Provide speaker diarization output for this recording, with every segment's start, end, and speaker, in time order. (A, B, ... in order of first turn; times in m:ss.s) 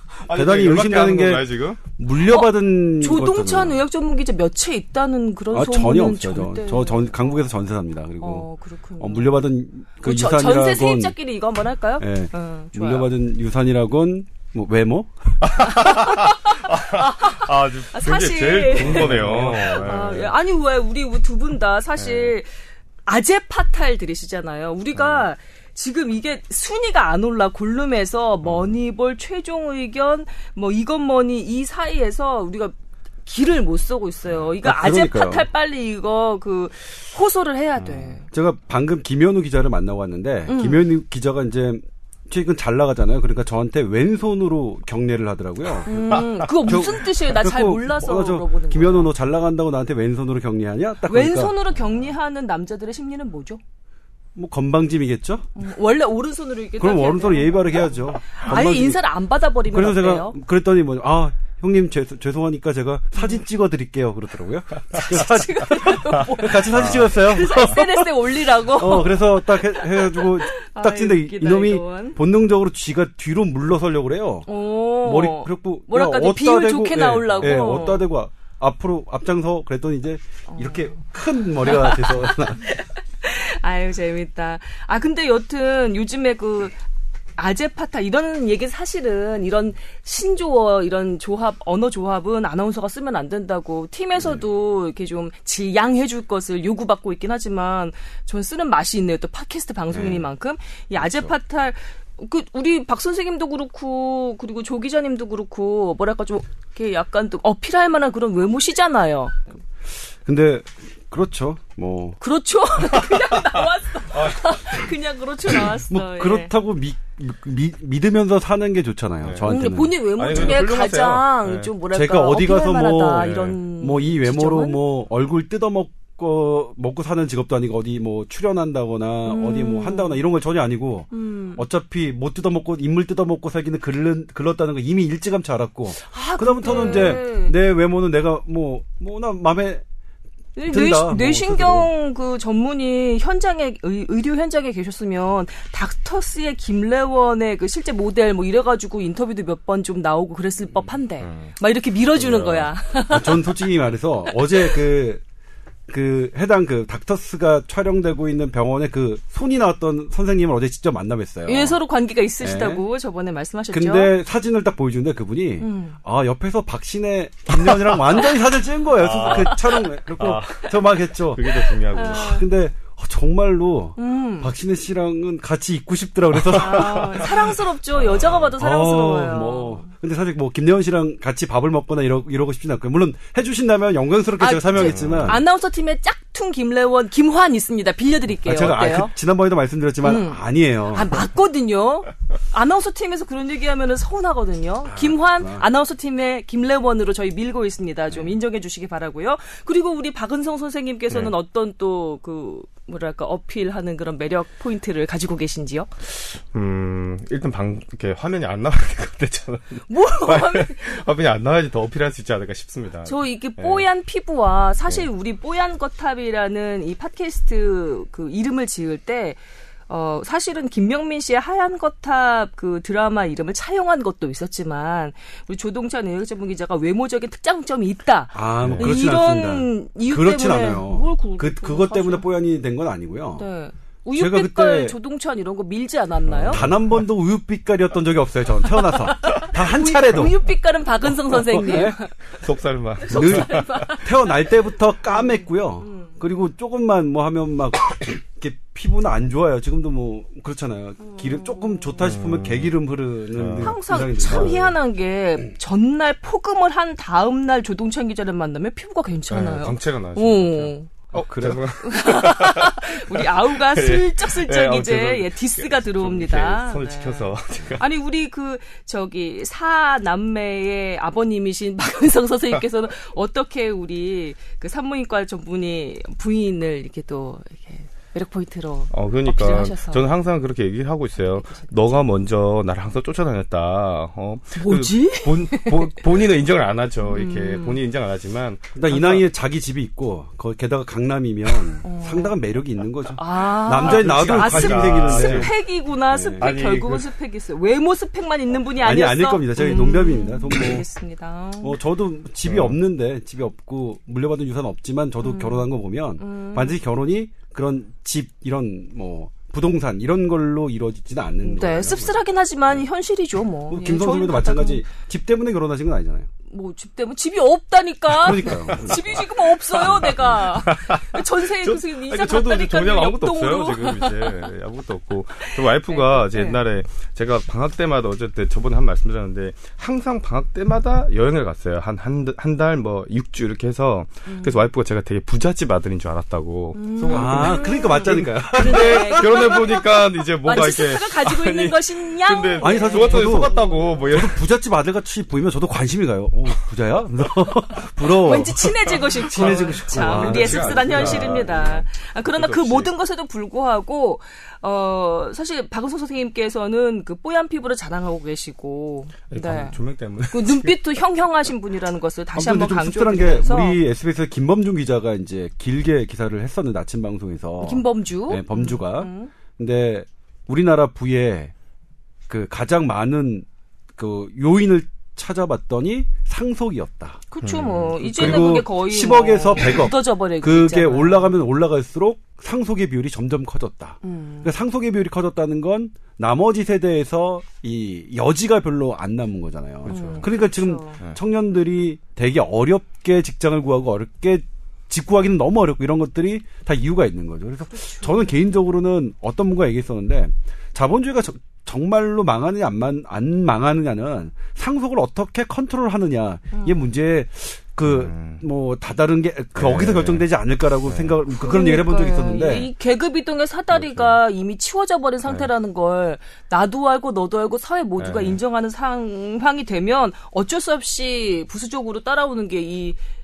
0:00.2-0:01.8 A
0:00.3-0:03.8 B
0:02.2-0:07.4 C
0:05.5-0:08.4 B
0:08.2-0:09.5 C
0:09.0-0:11.2 B
0:10.0-0:13.1 C
0:12.0-0:15.1 B
0:15.4-0:20.3 A
0:15.6-0:22.5 C
0:18.8-0:19.8 B
0:22.0-0:22.3 A
0:23.0-0:38.2 C
0:25.0-0:25.2 A
0:28.4-0:28.8 A
0:34.6-0:35.5 B
0:37.8-0:38.2 A
0:38.3-0:51.5 B
0:40.5-0:40.8 C
0:45.8-0:49.1 C
0:46.1-0:46.9 A
0:51.0-0:53.6 C
0:54.3-0:55.5 B
0:55.5-1:00.4 C
0:56.8-0:59.0 B
0:59.7-1:08.1 B
1:05.0-1:12.2 C
1:06.7-1:07.1 A
1:08.7-1:14.5 B
1:14.5-1:18.1 C
1:15.0-1:22.6 B
1:20.5-1:21.0 C
1:21.6-1:26.8 C
1:27.4-1:49.4 C
1:39.9-1:40.2 B
1:50.2-1:52.2 B
1:52.2-1:56.5 C
1:54.1-1:54.7 A
1:55.9-2:00.6 B
1:59.2-2:01.7 A
1:59.4-2:04.8 C
2:01.9-2:19.8 B
2:03.2-2:03.6 A
2:09.2-2:10.2 C
2:11.1-2:11.6 C
2:16.0-2:17.5 C
2:16.6-2:17.2 A
2:20.6-2:33.6 C
2:20.7-2:21.9 B
2:31.2-2:31.6 A
2:32.1-2:32.8 A
2:33.1-2:35.2 B
2:34.2-2:34.7 C
2:35.9-2:41.8 B
2:41.4-2:44.2 C
2:42.4-2:42.8 B
2:43.7-2:57.4 B
2:45.6-2:46.0 C
2:48.9-2:52.3 A
2:49.2-2:49.6 C
2:51.5-2:52.4 C
2:54.0-2:54.5 C
2:56.4-2:58.6 A
2:56.5-2:59.9 C
2:58.6-3:05.4 B
3:04.4-3:09.1 C
3:04.7-3:05.4 A
3:08.4-3:11.2 B
3:10.0-3:25.9 C
3:14.9-3:15.6 B
3:21.1-3:21.3 A
3:26.1-3:33.8 A
3:29.9-3:31.0 C
3:33.0-3:52.2 C
3:48.3-3:53.5 B
3:48.6-3:49.0 A
3:53.3-3:56.6 C
3:54.1-3:55.0 B
3:56.2-3:56.8 A
3:56.5-4:00.4 B
3:58.8-4:02.1 C
4:01.3-4:02.0 B
4:02.3-4:04.0 A
4:03.1-4:14.7 B
4:03.1-4:04.5 C
4:05.0-4:06.1 C
4:11.0-4:12.0 C
4:12.0-4:12.7 A
4:13.3-4:14.7 A
4:13.6-4:20.9 C
4:19.3-4:27.8 A
4:21.1-4:21.6 B
4:21.8-4:40.0 C
4:38.9-4:49.2 A
4:41.2-4:42.0 C
4:44.5-4:46.0 C
4:47.0-4:47.8 C
4:48.7-4:55.5 B
4:51.8-4:52.3 C
4:53.1-5:01.8 C
4:53.8-4:55.6 A
4:56.1-4:56.5 B
4:56.4-4:57.1 A
4:58.8-5:00.8 B
5:01.6-5:12.2 B
5:02.4-5:02.8 A
5:05.2-5:05.6 C
5:06.2-5:06.8 C
5:11.4-5:14.8 C
5:13.7-5:16.3 B
5:16.5-5:24.4 C
5:18.1-5:19.2 B
5:18.5-5:44.4 A
5:19.8-5:20.3 B
5:25.4-5:26.6 C
5:34.2-5:34.7 C
5:36.7-5:43.8 C
5:37.1-5:39.4 B
5:42.6-5:43.5 B
5:44.1-5:51.5 B
5:48.2-5:59.8 C
5:49.2-5:52.9 A
5:59.3-6:00.8 A
6:00.3-6:03.8 C
6:02.3-6:11.5 B
6:07.6-6:09.3 C
6:12.3-6:17.2 B
6:17.3-6:21.3 C
6:17.4-6:18.0 A
6:18.0-6:52.7 B
6:24.0-6:24.5 C
6:29.8-6:30.3 A
6:29.8-6:31.0 C
6:37.7-6:38.3 C
6:46.5-6:46.8 C
6:47.8-6:48.4 A
6:49.6-6:50.3 A
6:50.8-6:51.2 A
6:51.4-7:03.0 C
6:53.7-6:54.2 A
6:55.2-6:55.5 A
6:58.0-6:58.4 A